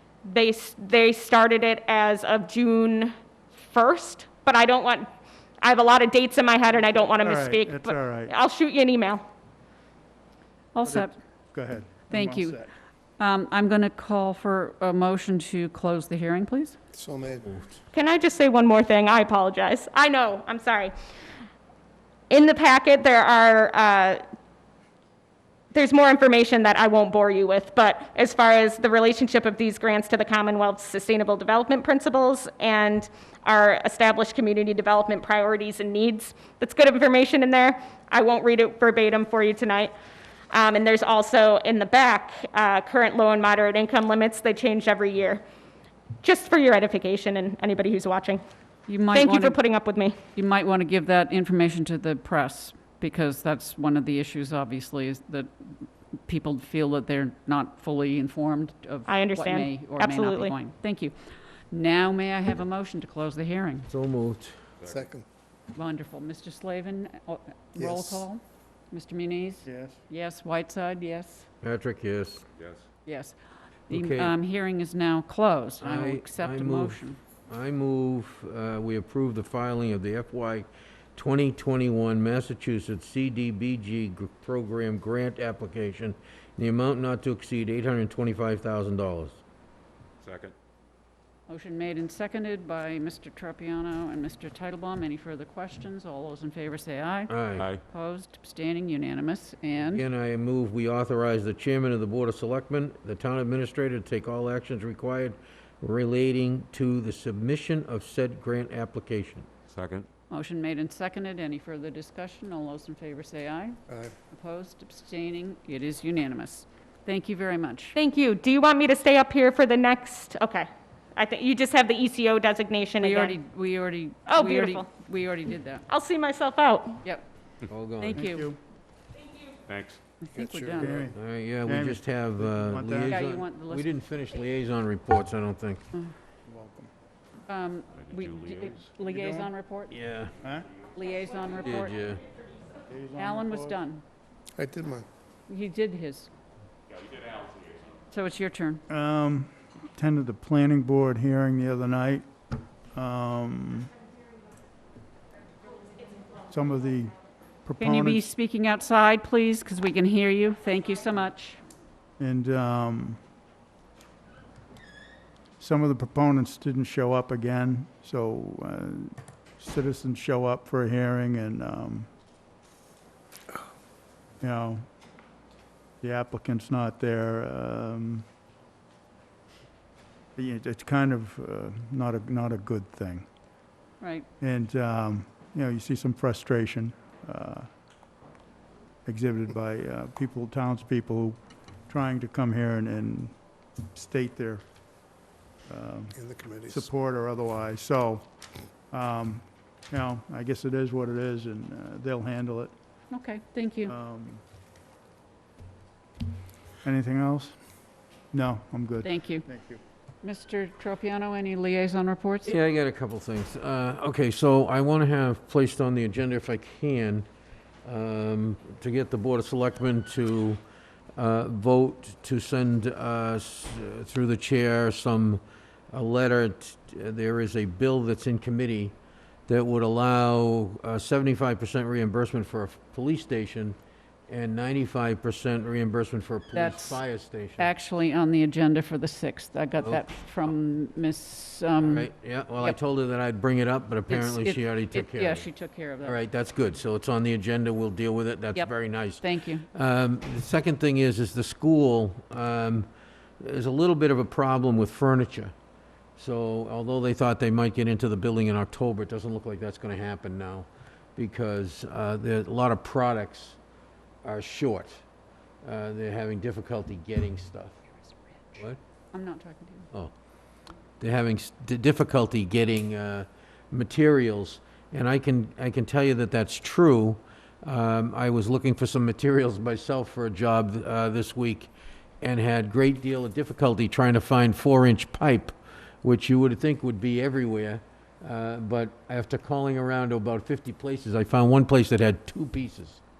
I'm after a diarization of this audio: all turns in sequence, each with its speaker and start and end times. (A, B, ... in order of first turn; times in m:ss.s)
0:00.2-0:05.1 A
0:05.6-0:09.2 A
0:07.2-0:08.3 B
0:10.7-0:11.2 C
0:10.8-0:12.6 B
0:12.1-0:12.7 C
0:13.2-0:16.8 C
0:16.9-0:17.6 D
0:17.9-0:20.9 A
0:22.3-0:24.2 A
0:25.7-0:39.9 A
0:40.5-0:45.4 A
0:46.2-0:48.4 A
0:48.9-0:49.6 C
0:49.1-0:50.2 A
0:50.3-1:03.9 C
0:59.1-1:00.5 A
1:03.9-1:04.6 E
1:04.8-1:05.1 F
1:04.9-1:05.2 D
1:05.7-1:11.5 C
1:07.8-1:08.2 D
1:09.7-1:10.0 B
1:11.6-1:12.4 E
1:12.6-1:12.8 F
1:13.0-1:13.4 C
1:13.9-1:17.2 C
1:13.9-1:14.3 E
1:15.8-1:29.4 E
1:30.2-1:30.5 F
1:31.5-1:40.1 C
1:37.3-1:37.7 E
1:37.6-1:37.8 F
1:39.9-1:49.5 E
1:49.7-1:50.1 F
1:50.3-1:53.8 C
1:54.3-1:58.0 C
1:57.9-2:03.4 A
2:03.0-2:05.8 C
2:04.3-2:04.9 A
2:05.9-2:07.0 A
2:07.7-2:08.2 E
2:08.0-2:08.5 C
2:08.1-2:08.6 B
2:09.6-2:10.0 F
2:10.2-2:11.1 C
2:10.3-2:11.1 D
2:10.8-2:13.2 B
2:11.1-2:15.8 E
2:13.0-2:14.0 C
2:16.4-2:16.9 B
2:17.5-2:20.0 C
2:17.9-2:18.9 F
2:19.0-2:19.5 B
2:19.9-2:20.3 E
2:20.4-2:20.7 B
2:20.8-2:22.2 C
2:21.6-2:22.2 E
2:22.9-2:23.8 B
2:23.1-2:24.0 C
2:24.6-2:25.1 D
2:25.5-2:26.3 C
2:27.0-2:27.9 F
2:28.1-2:28.8 C
2:28.9-2:32.2 B
2:32.9-2:33.9 B
2:36.5-2:37.1 B
2:37.6-2:38.2 B
2:37.8-2:41.6 C
2:42.2-2:43.2 B
2:45.6-2:52.1 B
2:54.4-2:54.8 B
2:56.0-2:58.2 B
3:00.4-3:03.2 B
3:04.0-3:04.3 C
3:04.4-3:07.7 B
3:09.0-3:11.4 B
3:11.9-3:13.4 B
3:13.9-3:14.6 B
3:15.7-3:18.2 B
3:16.1-3:16.9 D
3:18.9-3:22.7 B
3:23.1-3:23.9 C
3:23.9-3:24.4 B
3:26.8-3:27.6 B
3:28.3-3:29.8 B
3:29.0-3:29.4 C
3:30.2-3:32.6 C
3:32.4-3:37.3 E
3:37.8-3:40.6 E
3:41.2-3:48.9 E
3:49.5-3:53.8 E
3:54.3-3:57.7 E
3:56.5-3:57.0 C
3:57.6-4:02.8 C
4:01.8-4:05.5 E
4:04.1-4:06.2 C
4:06.0-4:12.9 E
4:08.5-4:09.6 C
4:13.4-4:15.5 E
4:16.2-4:23.6 E
4:24.2-4:25.0 E
4:25.6-4:27.8 E
4:29.1-4:29.9 C
4:31.0-4:53.0 E